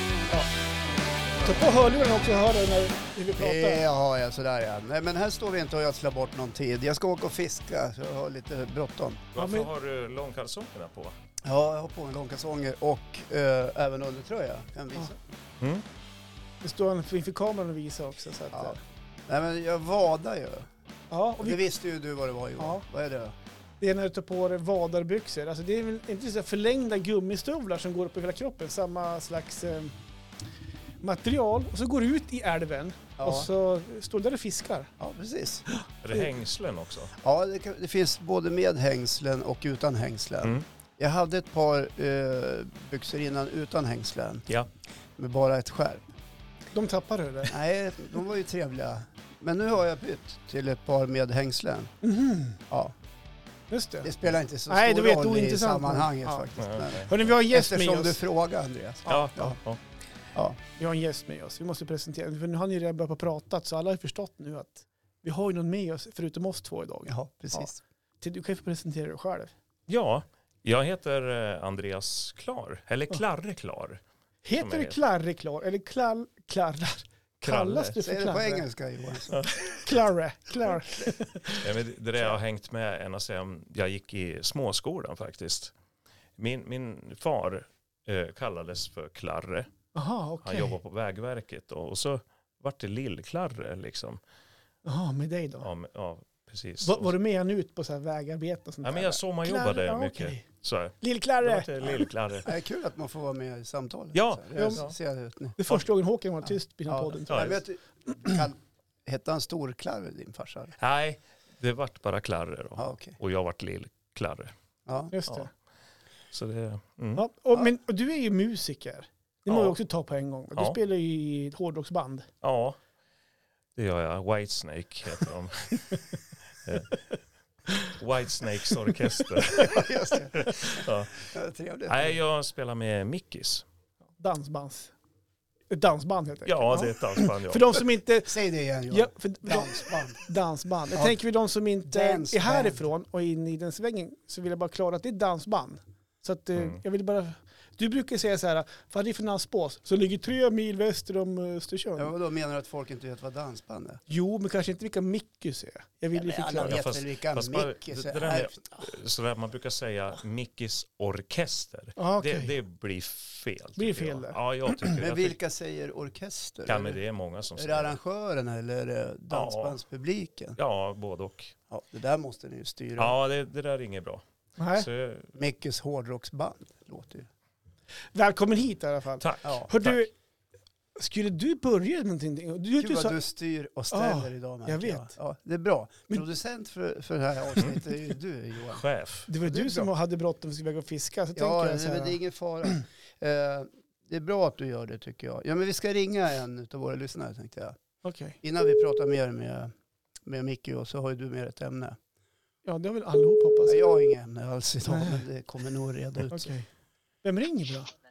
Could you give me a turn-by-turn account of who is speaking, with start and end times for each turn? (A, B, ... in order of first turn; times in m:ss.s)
0:01.4-0:03.8 A
0:03.4-0:09.3 B
0:09.3-0:11.1 C
0:09.4-0:09.7 A
0:11.4-0:15.2 B
0:16.6-0:18.8 A
0:18.5-0:20.7 B
0:21.1-0:21.6 A
0:21.4-0:23.3 B
0:23.8-0:29.9 A
0:31.0-0:34.9 A
0:33.2-0:33.5 B
0:35.0-0:35.6 B
0:35.7-0:36.3 A
0:36.0-0:37.1 C
0:37.2-0:44.5 B
0:45.2-0:46.0 B
0:46.7-0:47.6 A
0:47.5-0:51.9 B
0:52.0-0:52.6 A
0:53.7-0:54.1 A
0:54.0-0:59.6 B
0:54.7-0:56.5 A
0:56.6-0:57.1 C
0:57.0-0:58.2 A
0:59.1-0:59.8 C
0:59.1-0:59.5 A
1:00.8-1:07.7 A
1:07.1-1:07.8 B
1:08.2-1:09.5 A
1:09.9-1:14.0 C
1:14.4-1:18.6 A
1:14.5-1:15.0 C
1:17.4-1:18.0 C
1:18.0-1:19.5 B
1:19.3-1:19.8 C
1:19.8-1:21.6 A
1:21.6-1:25.7 C
1:26.4-1:29.7 C
1:29.9-1:30.8 A
1:30.4-1:34.2 C
1:34.8-1:35.7 A
1:35.6-1:37.1 C
1:36.8-1:40.5 A
1:38.8-1:42.5 C
1:41.0-1:42.1 A
1:42.4-1:45.6 B
1:44.1-1:45.0 C
1:44.6-1:44.8 A
1:45.6-1:47.6 A
1:46.9-1:50.7 B
1:47.3-1:47.6 C
1:50.8-1:54.5 C
1:52.8-1:53.2 B
1:54.8-1:55.1 B
1:55.1-1:55.5 A
1:56.3-1:57.2 C
1:57.2-2:02.3 A
1:59.5-1:59.8 C
2:02.4-2:02.8 C
2:03.7-2:06.0 C
2:06.6-2:07.0 C
2:07.9-2:11.2 C
2:09.6-2:12.2 B
2:11.9-2:13.6 C
2:14.2-2:14.9 A
2:15.7-2:18.4 A
2:16.4-2:17.8 C
2:18.2-2:20.2 B
2:18.9-2:32.1 A
2:20.9-2:21.2 B
2:21.8-2:22.8 B
2:26.5-2:26.8 C
2:32.0-2:34.0 B
2:34.1-2:36.8 A
2:36.1-2:38.8 B
2:36.5-2:45.4 C
2:42.0-2:42.6 A
2:43.8-2:44.9 A
2:44.9-2:47.0 B
2:46.6-2:48.0 C
2:47.6-2:50.6 B
2:49.3-2:49.8 C
2:50.6-2:51.5 C
2:51.7-2:53.2 B
2:53.0-2:55.3 C
2:54.6-2:54.9 A
2:55.4-2:57.3 B
2:58.1-3:00.1 A
2:59.2-3:00.1 C
2:59.4-2:59.7 B
3:01.0-3:03.2 A
3:02.8-3:08.8 B
3:03.9-3:05.1 A
3:08.7-3:09.3 C
3:09.3-3:12.2 A
3:09.4-3:09.9 B
3:11.3-3:17.8 B
3:18.0-3:18.4 A
3:18.4-3:19.7 B
3:20.2-3:22.0 B
3:22.6-3:23.9 A
3:23.6-3:26.5 B
3:24.9-3:25.2 A
3:26.3-3:26.7 A
3:27.2-3:27.9 A